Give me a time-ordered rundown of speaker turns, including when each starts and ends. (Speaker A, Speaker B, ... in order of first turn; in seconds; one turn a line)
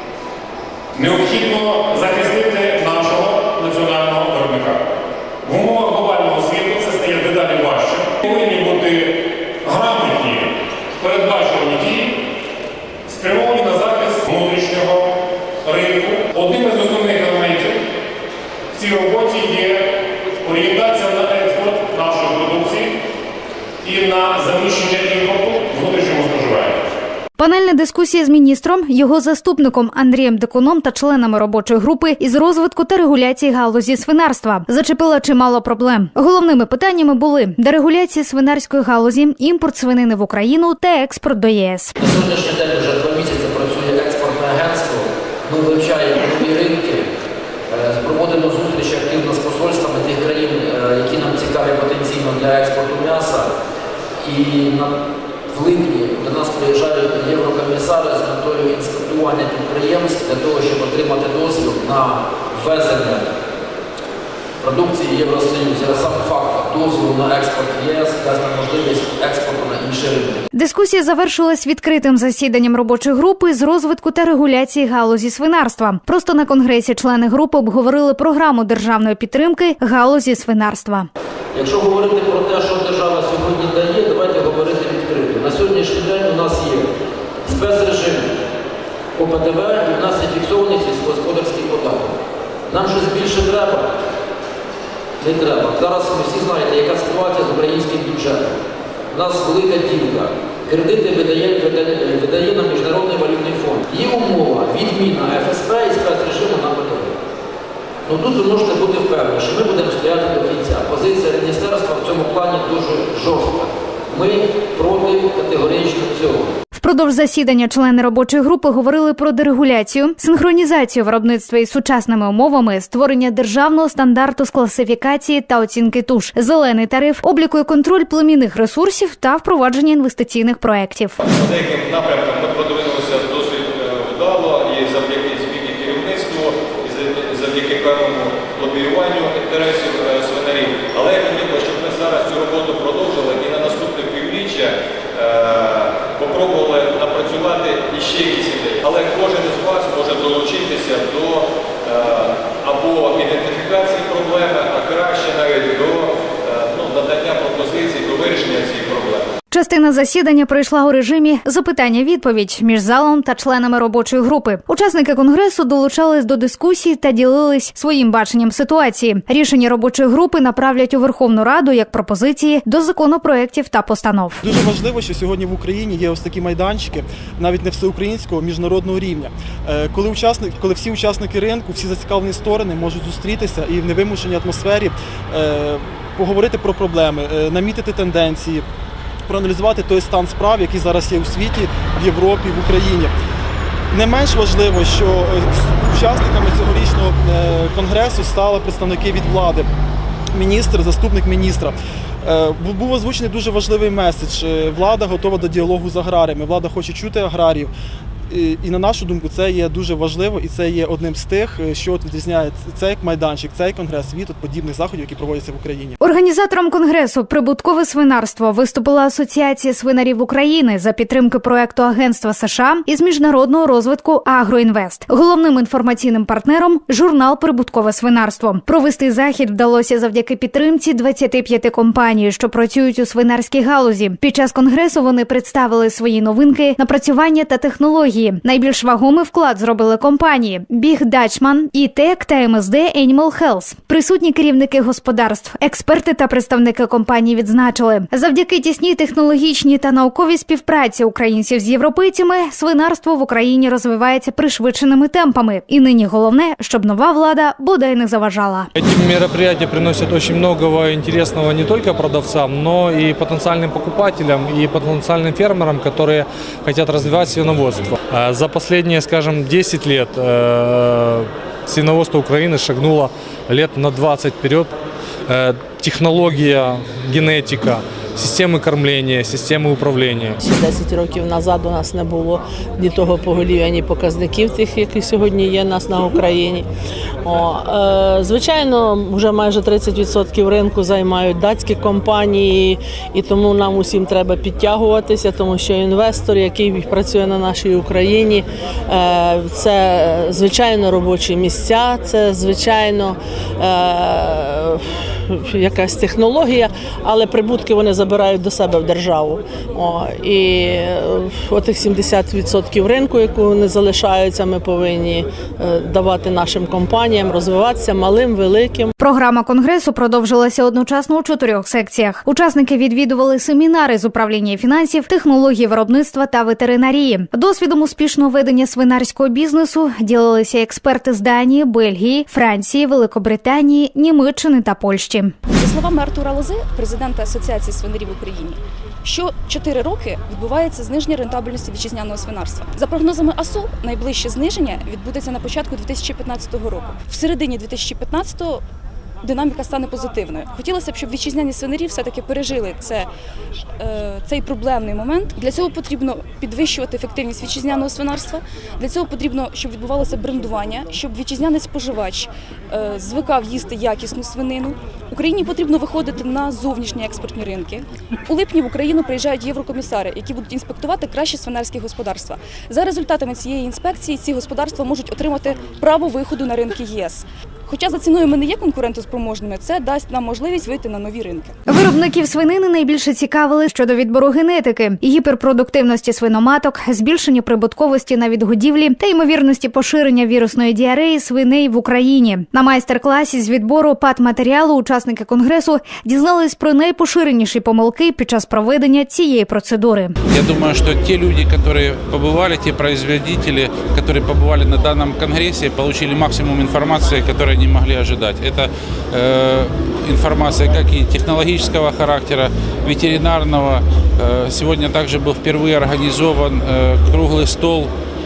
Speaker A: 0.9-4.8
Speaker A: 5.4-12.2
Speaker A: 13.1-17.8
Speaker A: 18.7-23.0
Speaker A: 23.8-26.9
Speaker B: 27.4-42.0
Speaker C: 42.0-47.1
Speaker C: 47.7-53.5
Speaker C: 54.2-54.9
Speaker C: 55.5-63.3
Speaker C: 64.6-70.4
Speaker B: 70.5-81.1
Speaker C: 81.5-86.9
Speaker C: 87.5-88.3
Speaker C: 89.2-92.2
Speaker C: 92.7-94.0
Speaker C: 95.2-98.6
Speaker C: 99.1-107.1
Speaker C: 108.1-116.5
Speaker B: 116.8-131.2
Speaker D: 131.2-159.3
Speaker B: 159.5-174.4
Speaker E: 174.4-188.7
Speaker E: 189.3-193.1
Speaker E: 193.9-199.7
Speaker E: 200.3-207.7
Speaker E: 208.3-216.0
Speaker B: 216.0-258.7
Speaker F: 258.8-274.7
Speaker F: 275.3-280.4
Speaker G: 280.4-286.7
Speaker G: 287.2-318.9
Speaker B: 319.0-335.4
Speaker H: 335.5-348.6
Speaker H: 349.2-353.1
Speaker H: 353.8-381.6
Speaker B: 381.7-400.1
Speaker I: 400.3-417.9